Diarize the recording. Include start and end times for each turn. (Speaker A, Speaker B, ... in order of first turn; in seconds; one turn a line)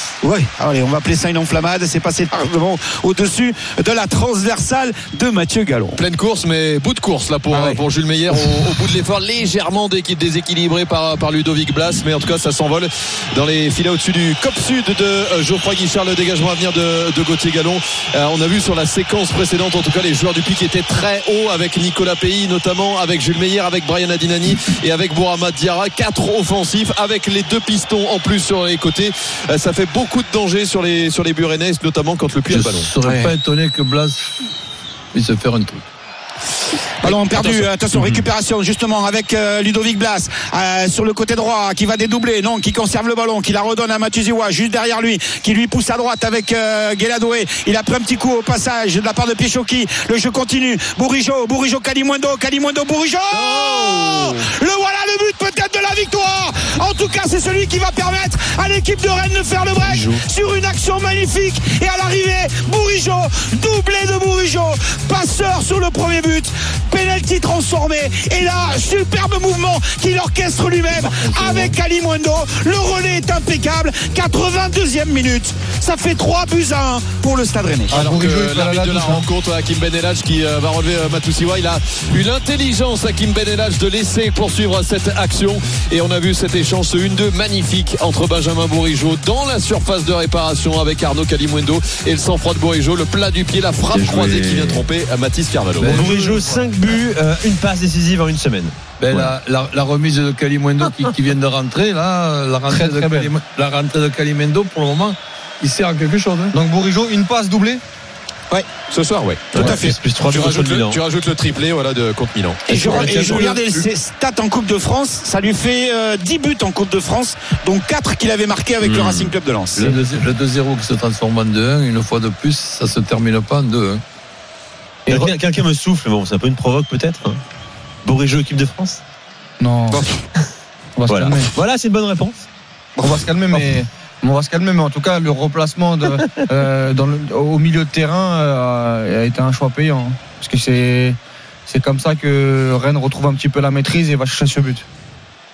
Speaker A: 0.2-6.0
Speaker B: 6.0-32.9
Speaker A: 7.5-7.8
Speaker C: 32.5-34.3
Speaker A: 33.0-33.3
Speaker C: 35.1-35.8
Speaker A: 37.0-78.1
Speaker B: 37.0-37.7
Speaker B: 53.4-54.3
Speaker C: 71.0-71.7
Speaker B: 77.9-96.1
Speaker D: 77.9-79.3
Speaker E: 93.9-94.8
Speaker C: 95.8-96.9
Speaker E: 95.8-99.3
Speaker C: 99.0-106.5
Speaker D: 102.7-103.3
Speaker D: 106.5-107.8
Speaker B: 108.9-113.5
Speaker E: 109.5-111.0
Speaker A: 109.6-109.9
Speaker E: 112.7-113.6
Speaker A: 112.7-120.0
Speaker E: 118.8-119.3
Speaker C: 119.8-124.0
Speaker D: 125.1-125.3
Speaker E: 125.1-127.4
Speaker E: 128.0-129.0
Speaker D: 129.6-130.0
Speaker A: 129.9-130.2
Speaker D: 130.9-131.5
Speaker E: 131.1-132.4
Speaker D: 133.0-144.8